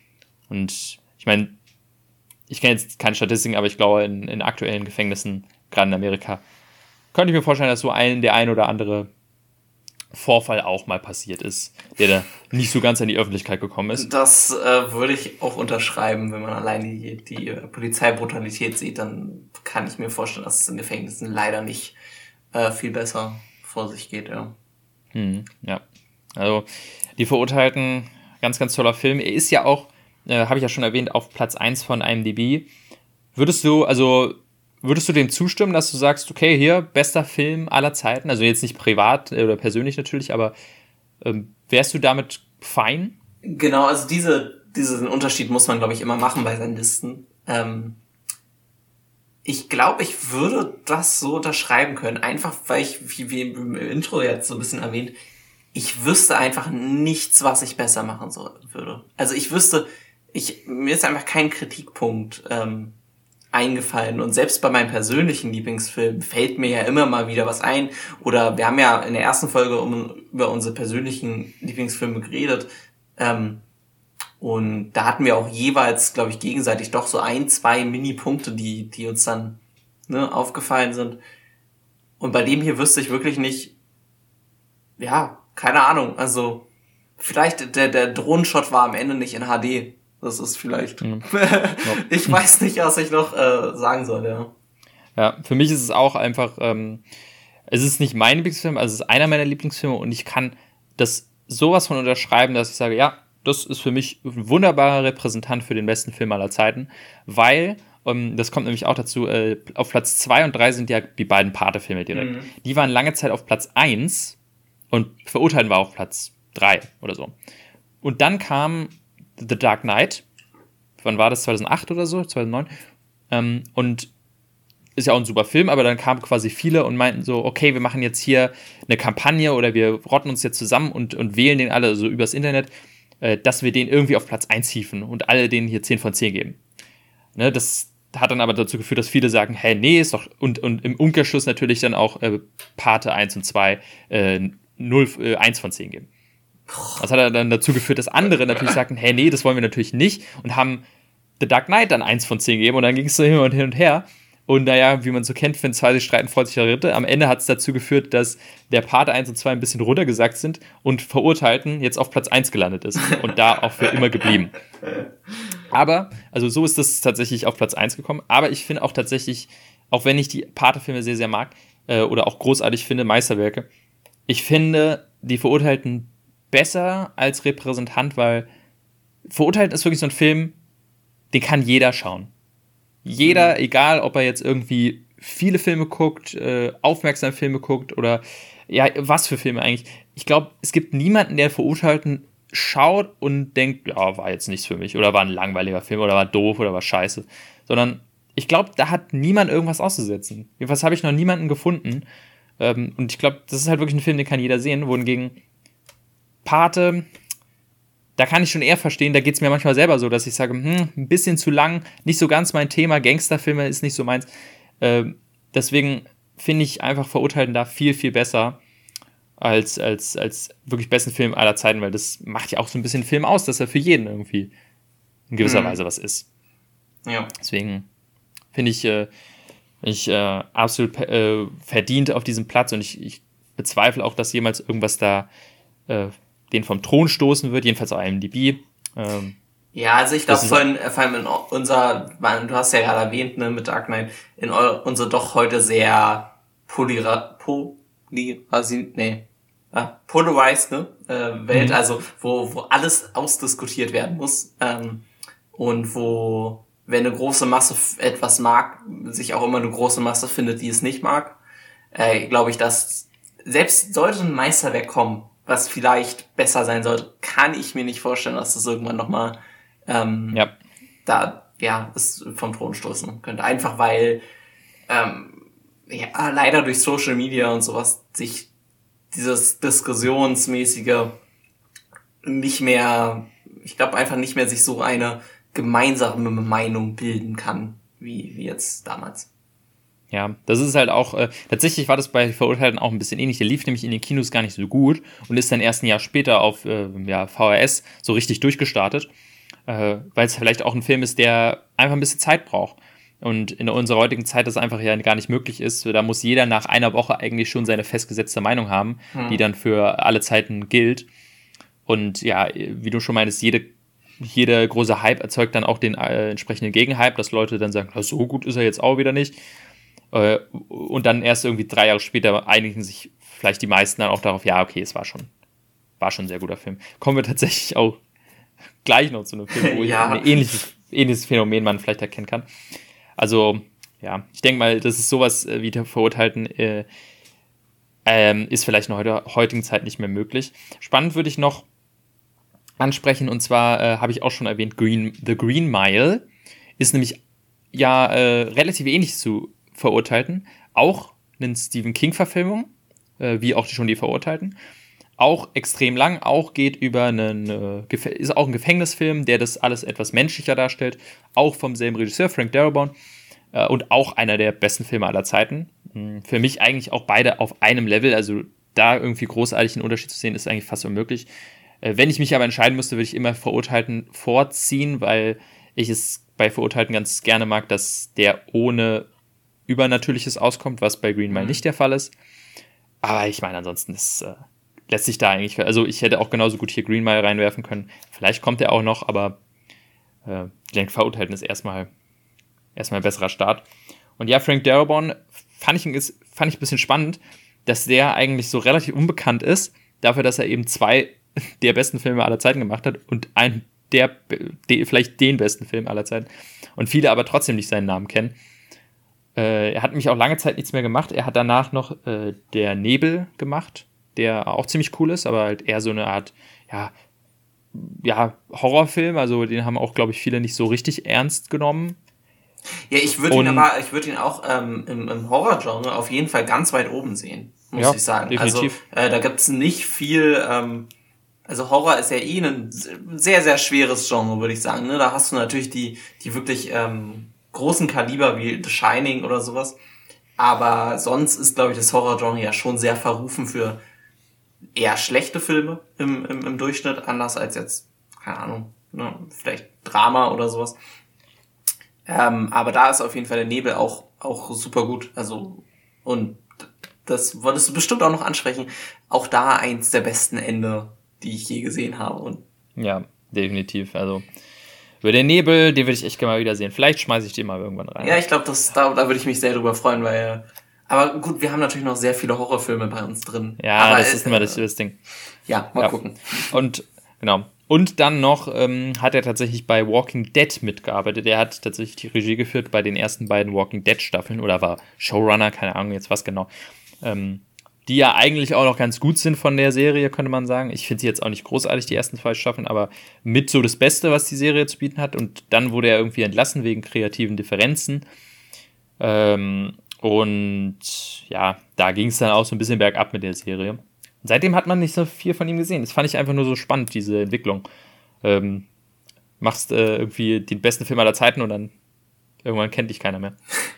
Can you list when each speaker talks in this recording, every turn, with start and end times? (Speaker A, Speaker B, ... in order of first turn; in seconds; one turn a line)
Speaker A: 0.5-1.6
Speaker A: 2.5-6.4
Speaker A: 7.1-9.1
Speaker A: 10.1-14.1
Speaker B: 14.0-22.0
Speaker B: 22.5-24.6
Speaker A: 25.1-25.8
Speaker A: 26.4-32.7
Speaker A: 33.4-40.5
Speaker A: 41.2-43.2
Speaker B: 43.4-48.0
Speaker B: 49.5-55.1
Speaker B: 55.7-63.0
Speaker B: 63.5-73.6
Speaker B: 74.4-81.2
Speaker B: 82.2-83.7
Speaker B: 85.0-86.7
Speaker B: 87.2-94.5
Speaker A: 91.0-91.3
Speaker A: 95.2-97.0
Speaker A: 97.7-114.4
Speaker B: 112.1-112.5
Speaker A: 114.9-117.3
Speaker A: 118.0-120.2
Speaker A: 121.0-122.7
Speaker A: 123.3-124.1
Speaker A: 125.0-136.6
Speaker A: 137.4-146.1
Speaker B: 146.7-147.0
Speaker A: 147.0-150.8
Speaker A: 151.4-164.6
Speaker A: 165.7-173.7
Speaker A: 174.3-178.5
Speaker A: 179.3-180.6
Speaker A: 181.3-182.3
Speaker A: 183.1-202.1
Speaker B: 183.2-183.6
Speaker A: 202.6-205.4
Speaker A: 206.4-207.1
Speaker A: 208.2-214.3
Speaker A: 214.8-218.6
Speaker A: 219.4-224.5
Speaker A: 225.3-226.3
Speaker B: 225.4-225.8
Speaker B: 227.1-227.3
Speaker A: 227.4-227.9
Speaker A: 228.5-229.1
Speaker A: 229.8-235.3
Speaker A: 235.9-239.4
Speaker B: 239.7-261.4
Speaker A: 240.3-240.7
Speaker A: 251.5-251.8
Speaker B: 261.9-270.4
Speaker B: 271.1-274.2
Speaker B: 274.9-278.5
Speaker B: 279.1-281.2
Speaker B: 282.2-289.3
Speaker A: 290.1-299.1
Speaker A: 299.7-311.1
Speaker B: 309.1-309.4
Speaker A: 311.9-319.4
Speaker A: 320.1-325.3
Speaker A: 326.0-328.0
Speaker A: 328.8-332.5
Speaker B: 329.5-330.6
Speaker A: 333.2-336.9
Speaker A: 338.1-341.7
Speaker A: 342.8-346.3
Speaker A: 346.8-347.2
Speaker A: 347.7-354.6
Speaker A: 355.2-362.9
Speaker A: 363.5-371.3
Speaker A: 371.8-379.1
Speaker A: 379.7-382.1
Speaker B: 381.3-381.6
Speaker A: 383.0-389.4
Speaker A: 390.3-391.9
Speaker A: 392.8-393.7
Speaker A: 394.2-408.4
Speaker A: 409.4-416.9
Speaker A: 417.7-422.0
Speaker B: 422.9-430.9
Speaker A: 423.3-423.7
Speaker A: 427.8-428.8
Speaker B: 431.5-439.8
Speaker B: 440.4-443.8
Speaker B: 444.8-450.8
Speaker B: 452.1-456.5
Speaker B: 457.1-462.4
Speaker A: 462.8-464.3
Speaker A: 465.0-468.2
Speaker B: 468.0-474.6
Speaker A: 473.6-475.0
Speaker B: 475.5-476.5
Speaker A: 476.5-486.5
Speaker A: 487.0-498.0
Speaker A: 499.0-507.6
Speaker A: 508.2-508.7
Speaker A: 509.4-511.7
Speaker A: 512.4-513.4